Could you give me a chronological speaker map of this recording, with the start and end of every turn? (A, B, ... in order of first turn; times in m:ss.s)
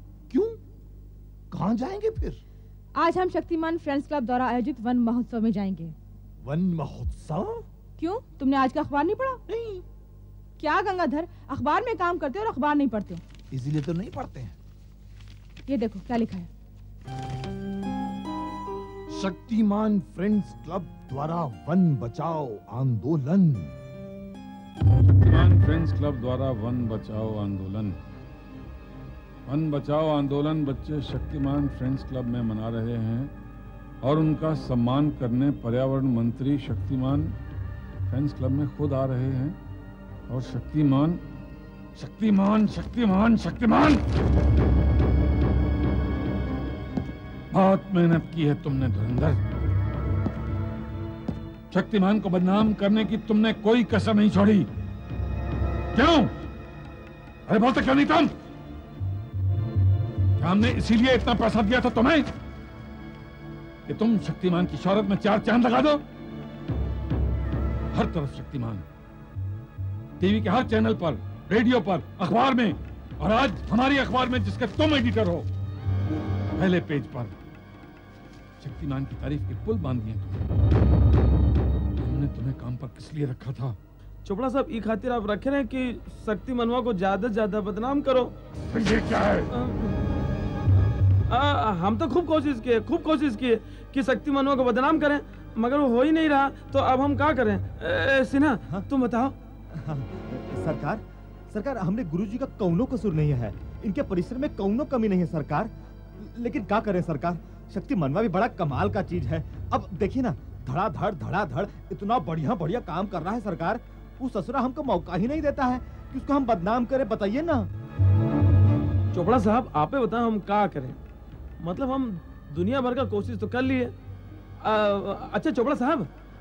0:00.3-0:00.6 A
0:01.5-0:02.4 A
0:03.0-0:06.0 B
0:06.4-0:07.7 A
0:08.0-0:09.4 B
0:09.5-0:09.8 A
0:10.6-0:13.2 B
0:13.5-0:14.6 A
0:15.7-0:16.5 B
0:19.1-0:23.8 A
0:25.2-0:28.0 C
0:29.5-0:33.3 C
0:34.0-0:37.4 C
0:38.1-0:39.6 C
0:40.3-0:41.2 C
0:42.0-0:44.0 C
0:47.5-0:49.4 C
0:51.7-0:54.7 C
0:55.9-0:56.3 C
0:57.5-0:58.3 C
1:00.4-1:02.3 C
1:03.9-1:06.0 C
1:07.9-1:08.8 C
1:10.2-1:15.5 C
1:16.6-1:17.3 C
1:18.6-1:20.4 C
1:22.0-1:23.8 C
1:24.2-1:28.3 D
1:28.7-1:29.5 C
1:29.5-1:30.0 D
1:31.3-1:39.4 D
1:39.7-1:57.7 E
1:59.1-2:01.0 D
2:01.6-2:03.9 D
2:04.6-2:06.1 D